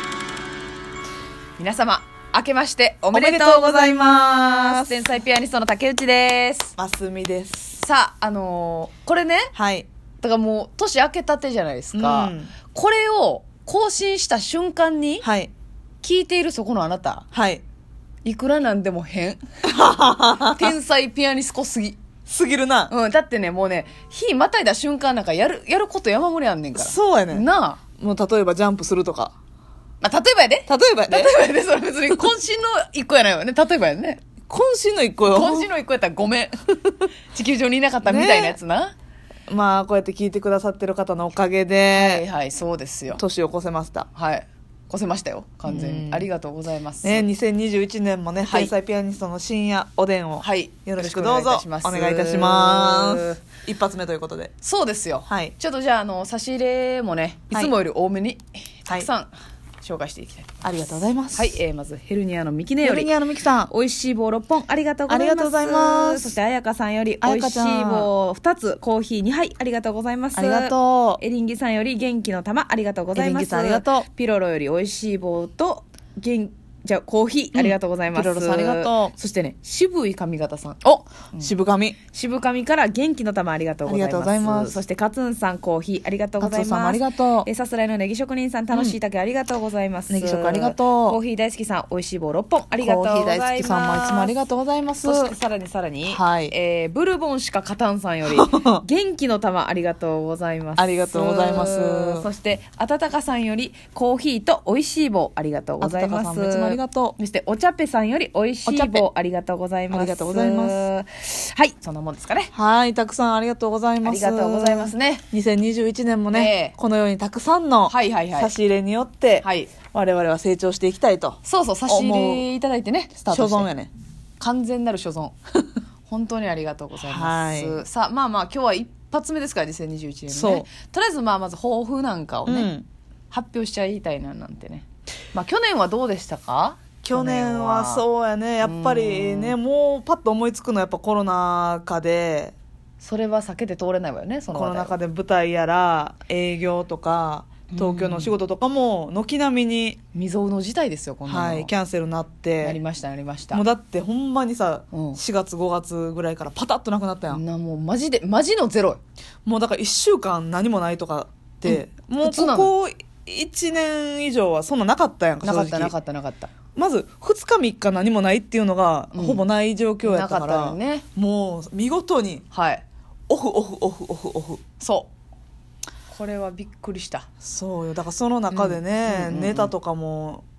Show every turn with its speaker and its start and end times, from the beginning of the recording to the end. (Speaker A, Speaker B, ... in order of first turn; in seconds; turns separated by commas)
Speaker A: 1.6-6.7, Speaker B: 3.1-5.0, Speaker B: 6.8-7.8, Speaker A: 7.8-9.5, Speaker B: 9.5-9.9, Speaker A: 10.2-15.2, Speaker B: 11.9-12.5, Speaker B: 15.2-15.5, Speaker A: 16.0-17.2, Speaker B: 17.3-17.6, Speaker A: 18.2-19.4, Speaker B: 19.6-20.7, Speaker A: 20.4-22.0, Speaker B: 22.2-22.9, Speaker A: 22.9-27.8, Speaker B: 26.7-27.4, Speaker B: 28.0-29.3, Speaker A: 30.0-34.2, Speaker B: 30.7-31.4, Speaker B: 34.5-35.7, Speaker A: 35.3-36.6, Speaker A: 37.3-38.9, Speaker B: 38.0-38.6, Speaker B: 39.5-42.2, Speaker A: 41.9-43.2, Speaker B: 43.1-44.1, Speaker A: 44.1-47.3, Speaker B: 45.6-46.3, Speaker B: 47.0-54.5, Speaker A: 48.5-48.7, Speaker A: 50.4-53.4, Speaker A: 54.6-60.5, Speaker B: 55.2-55.5, Speaker B: 60.6-61.5, Speaker A: 61.3-63.1, Speaker B: 62.8-63.7, Speaker A: 63.7-81.5, Speaker B: 65.1-66.3, Speaker B: 67.2-68.1, Speaker B: 70.3-71.2, Speaker B: 73.1-74.0, Speaker B: 77.5-79.1, Speaker B: 81.4-82.0, Speaker A: 82.1-112.5, Speaker B: 83.8-84.8, Speaker B: 86.4-87.5, Speaker B: 88.7-89.0, Speaker B: 90.1-91.2, Speaker B: 92.8-95.3, Speaker B: 96.1-96.5, Speaker B: 98.3-98.8, Speaker B: 100.8-102.2, Speaker B: 105.8-107.2, Speaker B: 108.6-109.0, Speaker B: 109.9-110.8, Speaker B: 112.5-122.4, Speaker A: 114.0-115.2, Speaker A: 116.3-116.8, Speaker A: 117.9-118.5, Speaker A: 119.4-119.7, Speaker A: 121.4-123.7, Speaker B: 123.3-123.9, Speaker A: 124.4-125.3, Speaker A: 126.1-132.7, Speaker B: 127.0-127.8, Speaker B: 130.3-130.7, Speaker B: 132.4-132.8, Speaker A: 133.3-138.0, Speaker B: 137.0-142.5, Speaker A: 138.6-139.6, Speaker A: 143.0-144.9, Speaker B: 144.5-150.0, Speaker A: 147.7-148.3, Speaker A: 150.1-151.7, Speaker B: 151.2-152.8, Speaker A: 152.6-153.6, Speaker B: 153.5-157.4, Speaker A: 154.9-155.2, Speaker A: 157.3-159.0, Speaker B: 159.4-165.9, Speaker A: 161.6-162.7, Speaker A: 165.4-166.5, Speaker B: 166.8-172.4, Speaker A: 169.1-169.4, Speaker A: 170.0-171.0, Speaker A: 172.5-172.8, Speaker B: 173.3-174.6, Speaker A: 174.8-175.1, Speaker A: 176.1-177.3, Speaker B: 177.4-180.4, Speaker A: 178.5-179.7